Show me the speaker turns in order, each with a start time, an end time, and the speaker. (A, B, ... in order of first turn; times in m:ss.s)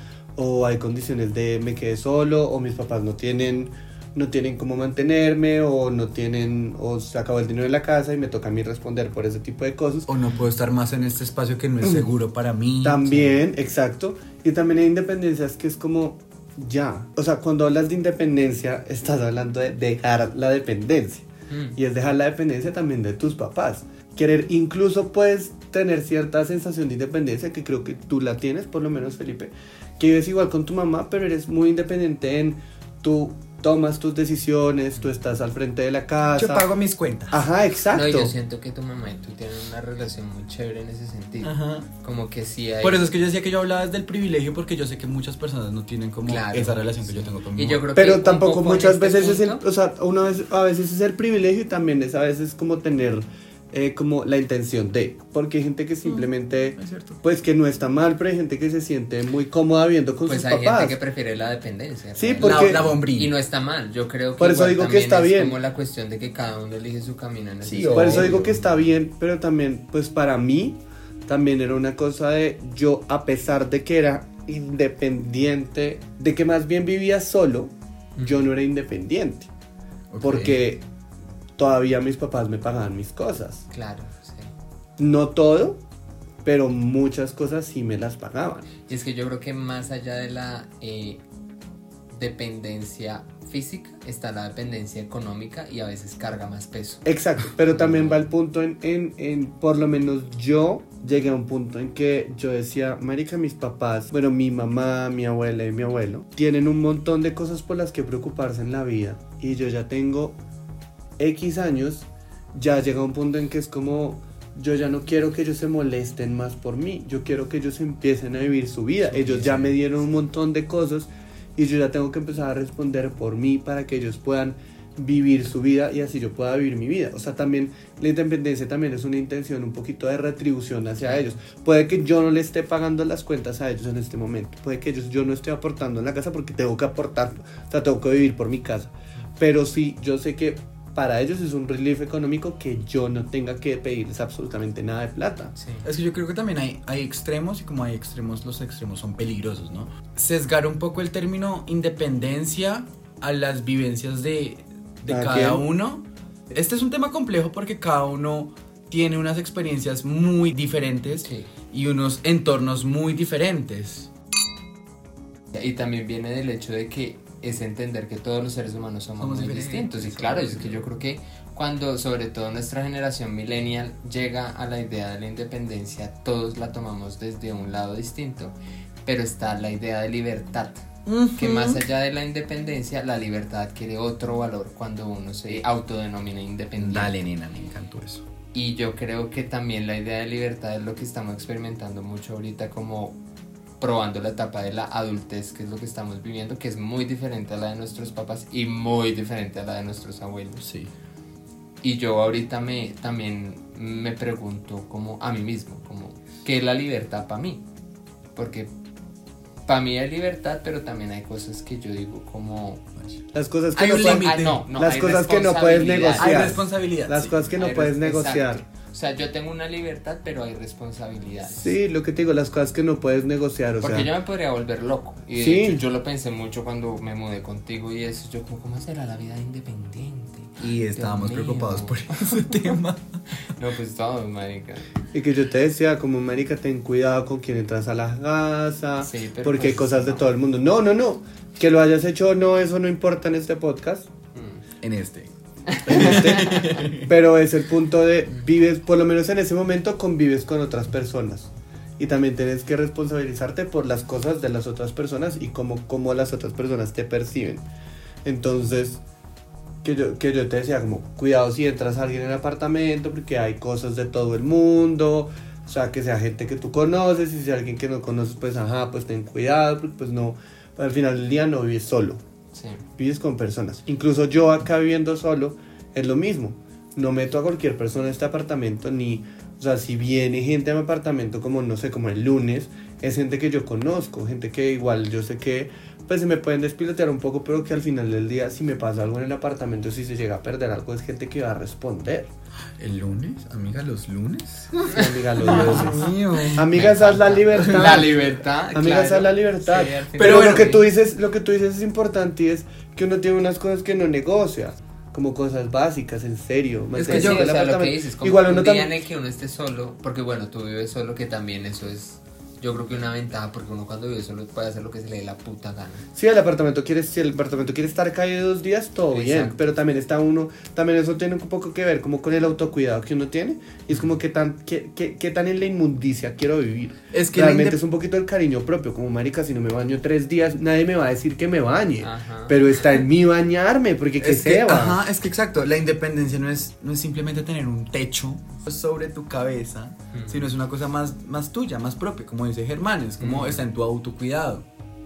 0:00.4-0:10.1 A
0:10.1-0:13.4 B
0:12.8-0:36.7 A
0:21.5-0:21.8 C
0:36.4-0:37.4 B
0:37.3-0:38.3 A
0:37.9-0:43.1 C
0:41.4-0:41.9 B
0:42.8-0:47.8 B
0:46.3-0:49.6 C
0:48.0-1:01.0 A
0:56.8-0:57.2 B
1:00.3-1:08.9 C
1:02.2-1:02.9 A
1:02.4-1:03.3 B
1:04.4-1:05.6 A
1:07.6-1:08.3 B
1:07.9-1:19.5 A
1:18.2-1:18.5 C
1:20.1-1:20.6 B
1:20.2-1:20.8 A
1:20.3-1:20.6 C
1:21.6-1:23.7 A
1:23.7-1:24.5 C
1:25.0-1:25.8 A
1:26.4-1:28.7 A
1:28.9-1:31.2 C
1:32.1-1:37.1 C
1:37.0-1:50.4 A
1:37.7-1:38.2 C
1:51.2-2:25.5 A
1:59.2-1:59.7 B
2:11.0-2:11.4 C
2:25.6-2:25.8 C
2:25.8-2:44.1 B
2:35.1-2:35.6 A
2:41.2-2:41.5 C
2:45.5-3:07.1 C
2:49.2-2:50.9 B
3:01.1-3:01.8 B
3:06.8-3:08.2 B
3:08.5-3:13.2 C
3:13.8-3:20.7 C
3:20.6-3:20.9 B
3:21.8-3:27.6 C
3:28.4-3:28.7 C
3:29.7-3:32.8 C
3:33.3-3:38.6 A
3:33.8-3:36.6 C
3:33.8-3:34.6 B
3:36.2-3:37.3 B
3:37.6-3:41.8 C
3:41.5-3:44.1 A
3:43.8-3:52.6 C
3:45.4-3:45.8 A
3:50.6-3:53.2 B
3:53.4-3:54.9 C
3:55.1-4:04.1 A
3:59.0-4:00.3 C
4:04.4-4:04.6 C
4:04.8-4:07.1 B
4:05.7-4:06.8 C
4:05.9-4:17.6 A
4:18.2-4:19.0 A
4:19.8-4:32.2 A
4:32.5-4:32.8 C
4:33.0-4:52.3 A
4:52.8-4:56.7 B
4:54.9-5:08.9 A
4:54.9-5:00.8 C
4:57.6-4:58.0 B
5:00.2-5:00.8 B
5:07.0-5:16.0 C
5:07.0-5:07.5 B
5:16.2-5:35.0 A
5:19.1-5:19.6 C
5:27.1-5:27.8 B
5:32.0-5:32.6 C
5:34.2-5:44.6 B
5:40.1-5:40.4 C
5:43.2-5:43.6 C